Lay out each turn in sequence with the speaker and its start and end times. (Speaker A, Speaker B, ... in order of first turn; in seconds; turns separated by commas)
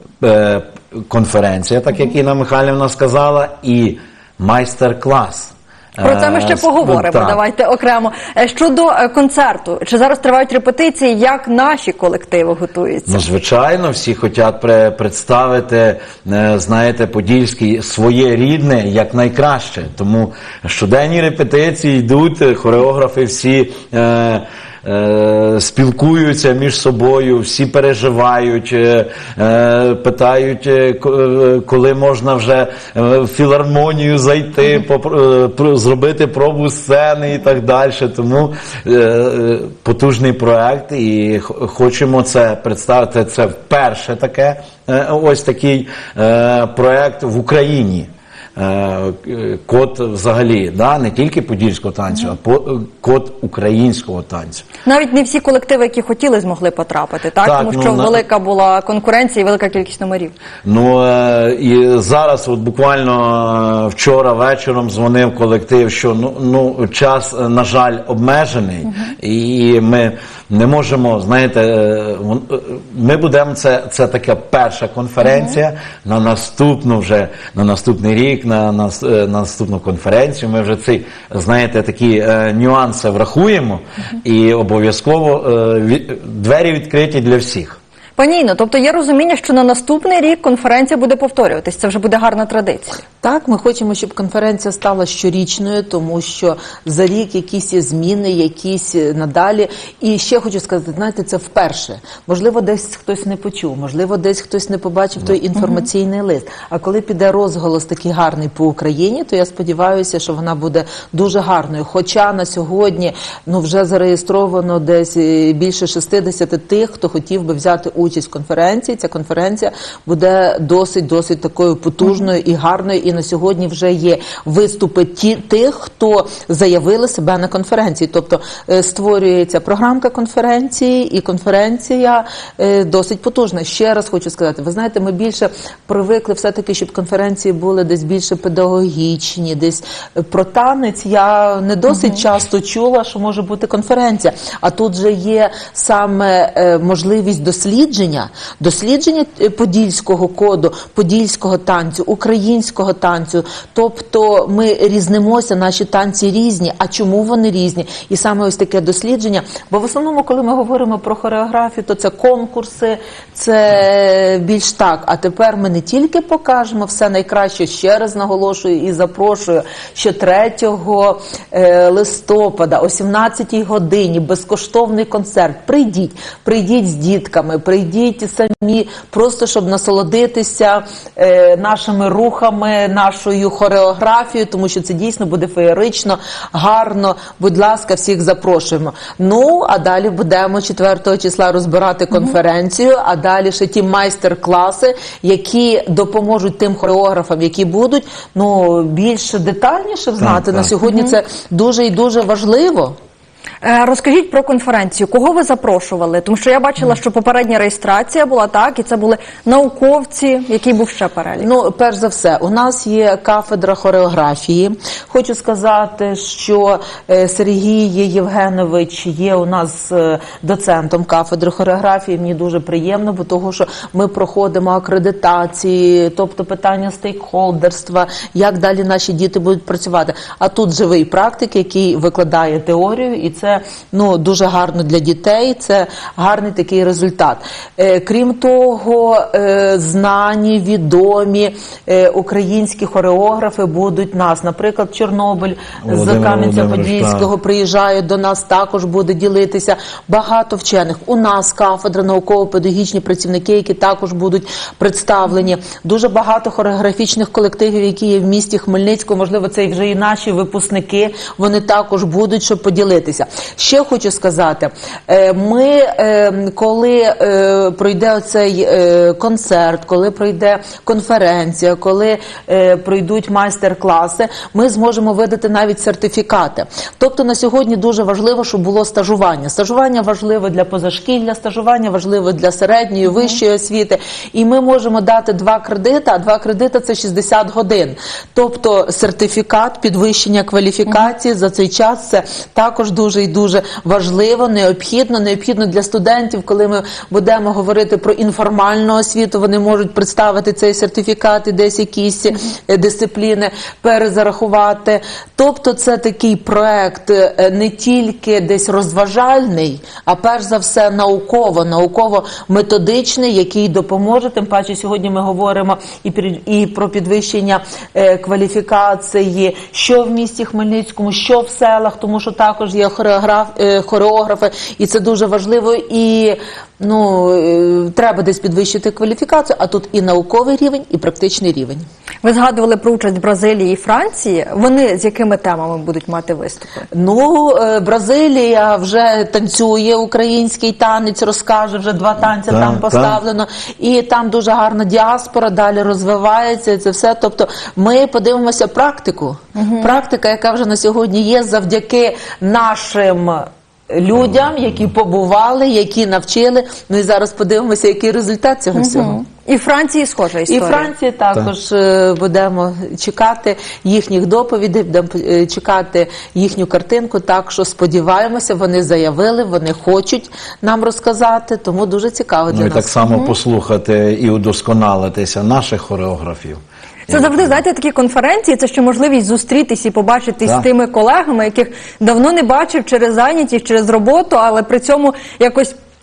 Speaker A: 0.2-7.4, Speaker B: 6.0-13.2, Speaker A: 13.1-54.6, Speaker B: 54.8-60.3, Speaker A: 57.4-58.2, Speaker A: 60.6-87.8, Speaker B: 88.2-93.0, Speaker C: 93.2-202.9, Speaker A: 200.2-200.7, Speaker B: 200.8-201.1, Speaker B: 203.6-211.5, Speaker C: 211.4-331.9, Speaker A: 245.8-247.3, Speaker B: 332.2-336.9, Speaker C: 336.9-359.2, Speaker A: 342.5-343.2, Speaker B: 349.5-349.9, Speaker B: 358.8-360.9, Speaker C: 360.5-372.9, Speaker A: 372.5-377.6, Speaker B: 377.1-385.7